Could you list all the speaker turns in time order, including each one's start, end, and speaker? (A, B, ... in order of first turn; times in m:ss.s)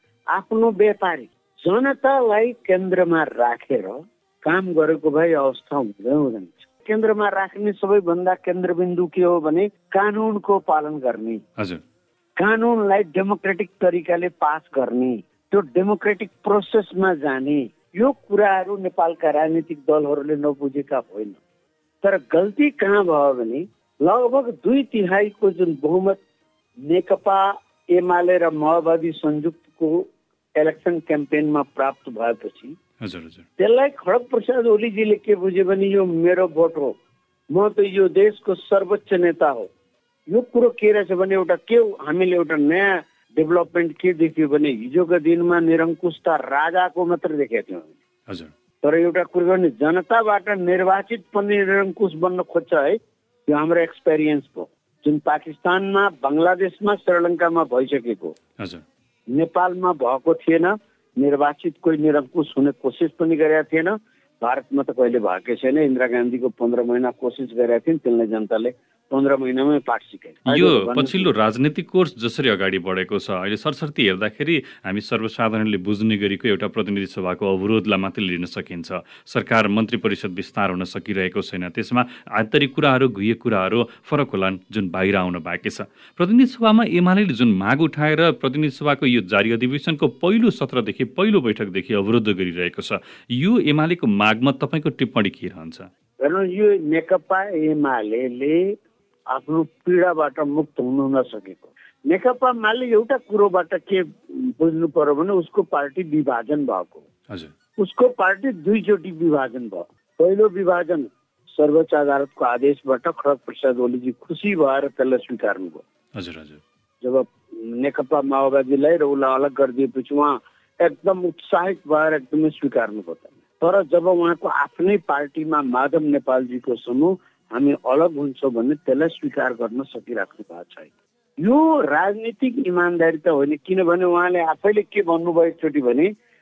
0:00.3-0:11.4 A
0:11.6-0:11.8 B
0:12.4-0:21.4 A
0:22.0-0:26.2 A
0:26.8-0:32.8 A
0:33.0-0:33.4 B
0:33.6-0:36.9 A
0:37.5-0:39.7 A
0:40.3-0:47.9 A
0:48.3-0:48.5 B
0:48.8-0:58.4 A
0:58.6-0:58.8 B
0:59.3-1:11.3 A
1:10.4-1:35.9 B
1:36.2-1:38.7 A
1:39.3-1:47.0 A
1:47.8-1:55.8 A
1:56.1-1:56.6 B
1:57.0-2:10.9 A
2:11.4-2:16.1 A